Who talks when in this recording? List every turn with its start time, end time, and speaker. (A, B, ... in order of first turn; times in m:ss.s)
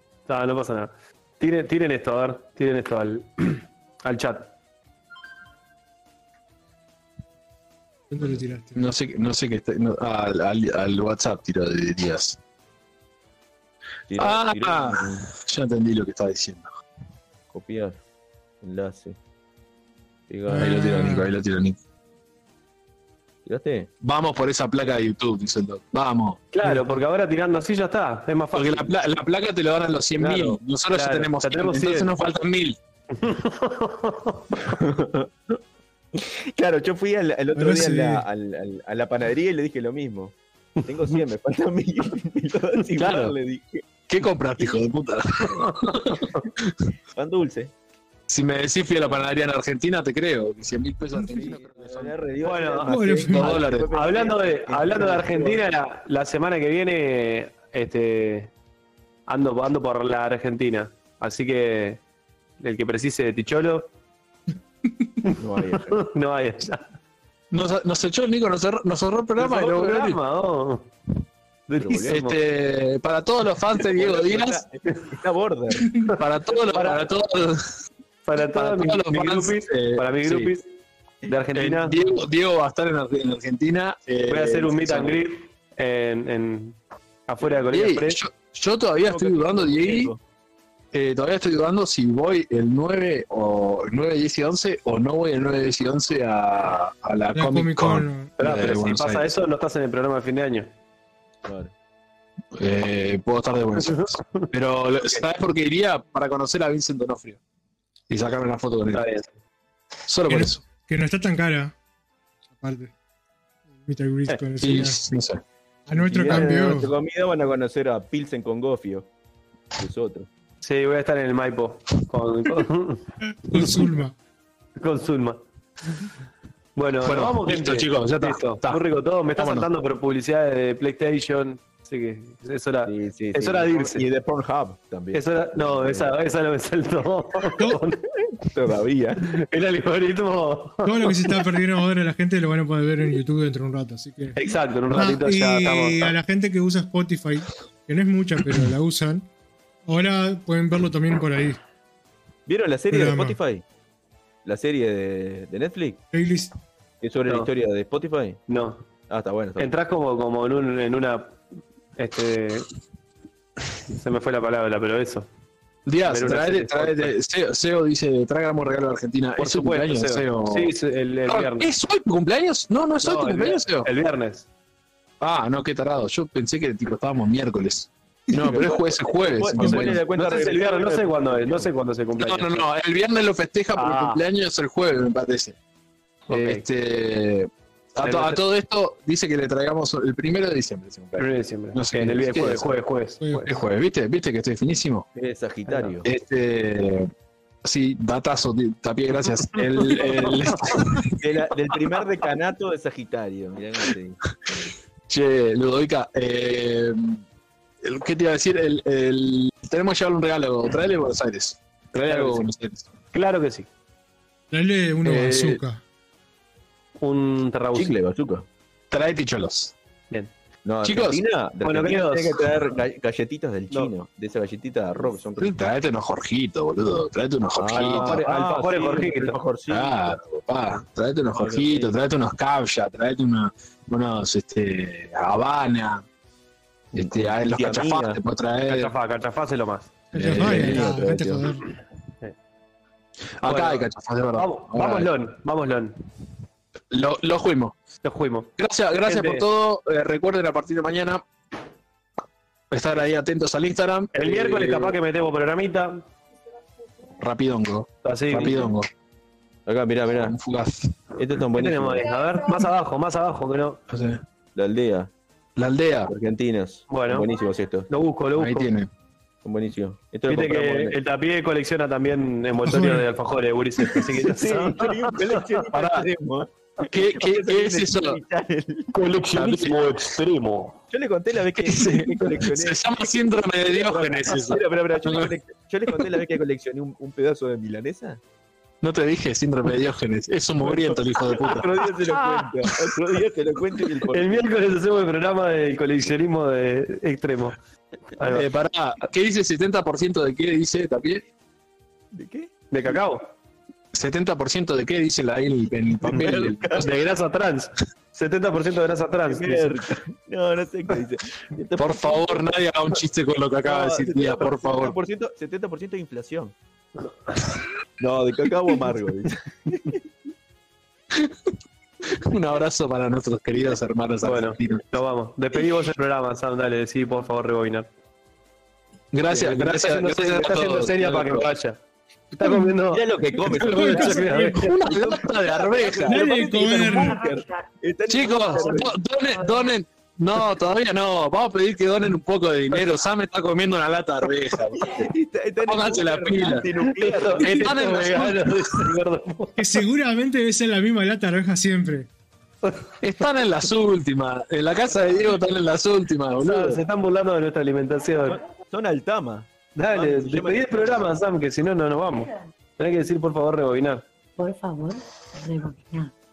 0:00.3-0:04.5 A
0:08.1-0:08.8 B
0:08.7-0:12.4 C
0:14.1-0:15.3 D
0:14.2-0:16.7 C
0:17.5-0:18.0 D
0:18.6-0:19.2 D
0:20.3-0:20.7 D
0:20.5-0:21.3 B
0:20.6-0:21.8 C
0:23.4-0:23.9 D
0:24.0-0:26.4 C
0:26.5-0:28.9 A
0:28.5-0:32.8 C
0:30.2-0:32.1 A
0:30.2-0:30.6 D
0:33.1-0:34.6 A
0:34.6-0:35.6 D
0:36.1-0:40.3 D
0:37.5-0:38.2 B
0:40.8-0:41.2 A
0:40.8-0:43.8 D
0:42.8-0:43.3 A
0:44.1-0:46.7 C
0:45.7-0:46.4 A
0:47.1-0:47.7 D
0:48.3-0:52.2 C
0:51.2-0:55.6 D
0:52.4-0:53.0 A
0:52.9-0:53.6 B
0:53.2-0:53.9 C
0:53.9-0:58.5 A
0:59.3-1:02.0 A
1:02.6-1:03.9 A
1:05.2-1:06.8 A
1:05.4-1:06.0 D
1:07.5-1:10.2 C
1:09.4-1:10.9 A
1:11.7-1:12.4 A
1:11.8-1:12.1 D
1:12.0-1:14.6 C
1:13.8-1:16.1 D
1:16.1-1:17.7 C
1:16.6-1:17.0 A
1:18.2-1:20.7 A
1:18.5-1:20.5 C
1:21.2-1:22.2 A
1:21.5-1:25.2 C
1:24.3-1:28.2 A
1:27.7-1:30.1 C
1:29.0-1:30.2 D
1:30.9-1:39.3 C
1:37.3-1:38.3 B
1:38.4-1:40.7 A
1:41.4-1:41.7 D
1:42.5-1:47.4 C
1:43.8-1:44.5 A
1:48.1-1:49.0 C
1:48.9-1:49.3 A
1:50.1-1:50.6 C
1:50.3-1:51.7 B
1:52.6-1:52.9 B
1:53.8-1:55.0 B
1:54.6-1:55.4 C
1:55.9-1:56.9 B
1:55.9-1:59.1 D
1:59.8-2:00.3 D
2:00.6-2:03.0 A
2:03.5-2:04.1 B
2:04.8-2:05.4 A
2:06.8-2:14.0 A
2:07.0-2:08.8 C
2:09.4-2:09.7 C
2:12.8-2:16.1 D
2:15.1-2:18.0 A
2:18.2-2:19.3 D
2:19.2-2:21.4 A
2:20.8-2:29.3 B
2:24.4-2:26.1 A
2:29.9-2:31.6 B
2:32.4-2:33.6 D
2:32.9-2:33.4 B
2:34.4-2:36.0 D
2:36.1-2:36.5 B
2:37.0-2:38.4 D
2:38.5-2:38.8 A
2:39.1-2:39.7 D
2:39.6-2:41.4 A
2:42.0-2:42.7 A
2:43.9-2:45.3 A
2:45.8-2:50.7 C
2:46.1-2:47.1 A
2:49.4-2:51.7 A
2:51.3-2:53.9 C
2:53.0-2:54.5 A
2:55.2-3:00.0 C
2:58.4-3:01.7 D
3:00.1-3:02.6 A
3:02.2-3:05.6 C
3:03.7-3:04.2 A
3:06.3-3:06.6 A
3:06.3-3:12.7 C
3:08.0-3:08.4 A
3:11.2-3:13.5 A
3:13.2-3:13.4 B
3:13.4-3:15.0 C
3:15.1-3:16.0 D
3:15.7-3:16.0 A
3:16.0-3:17.1 C
3:17.6-3:21.1 C
3:19.5-3:20.8 A
3:21.2-3:24.7 D
3:25.1-3:27.2 C
3:27.8-3:32.8 C
3:32.0-3:32.4 A
3:33.1-3:33.7 A
3:34.5-3:35.8 B
3:35.0-3:35.6 C
3:37.0-3:38.0 A
3:37.7-3:38.5 D
3:38.9-3:39.7 C
3:40.6-3:45.7 D
3:40.8-3:41.2 C
3:41.6-3:42.4 A
3:45.4-3:48.2 C
3:47.6-3:50.2 D
3:47.7-3:49.4 A
3:49.7-3:56.0 C
3:51.3-3:52.0 D
3:56.9-3:58.1 D
3:56.9-3:58.9 C
3:57.8-3:59.9 A
4:00.1-4:00.9 C
4:00.1-4:01.6 B
4:00.2-4:01.5 D
4:03.4-4:05.1 C
4:03.4-4:06.0 A
4:06.9-4:07.8 C
4:08.0-4:08.5 A
4:08.6-4:11.2 C
4:09.0-4:09.4 A
4:12.7-4:15.0 C
4:14.1-4:16.0 A
4:17.2-4:18.9 C
4:18.0-4:18.6 A
4:18.3-4:18.7 D
4:19.6-4:20.3 D
4:20.1-4:21.0 C
4:21.2-4:22.1 D
4:21.5-4:23.8 A
4:23.9-4:24.2 C
4:24.5-4:25.1 D
4:25.6-4:26.1 C
4:26.1-4:27.9 D
4:26.9-4:27.3 A
4:27.9-4:28.7 A
4:28.4-4:28.9 C
4:29.4-4:31.0 D
4:30.3-4:35.2 A
4:32.6-4:33.0 B
4:34.2-4:38.9 D
4:35.7-4:36.1 C
4:36.9-4:38.2 C
4:38.9-4:40.8 A
4:39.3-4:40.1 C
4:40.9-4:48.2 D
4:41.6-4:45.3 C
4:48.8-4:51.8 C
4:50.6-4:54.5 D
4:52.0-4:52.5 A
4:54.1-4:57.6 A
4:58.2-4:58.5 A
4:58.2-5:01.2 C
5:02.1-5:02.5 D
5:02.7-5:03.3 A
5:03.9-5:07.0 C
5:06.0-5:06.9 D
5:06.7-5:09.7 A
5:09.2-5:12.4 D
5:11.8-5:15.0 C
5:13.6-5:16.5 D
5:18.0-5:20.0 D
5:21.1-5:21.5 C
5:22.1-5:24.8 C
5:24.2-5:27.8 A
5:29.1-5:31.5 C
5:29.3-5:31.8 A
5:32.3-5:33.0 A
5:32.4-5:32.7 C
5:32.9-5:38.9 D
5:33.5-5:36.2 C
5:33.6-5:34.9 A
5:36.1-5:37.2 B
5:36.7-5:37.6 E
5:38.1-5:45.1 C
5:44.8-5:47.7 D
5:45.6-5:46.7 C
5:46.8-5:49.6 A
5:47.4-5:48.9 C
5:49.6-5:52.1 B
5:53.0-5:56.8 C
5:56.4-5:58.4 A
5:58.6-6:01.2 D
5:59.8-6:04.0 A
6:04.4-6:06.1 E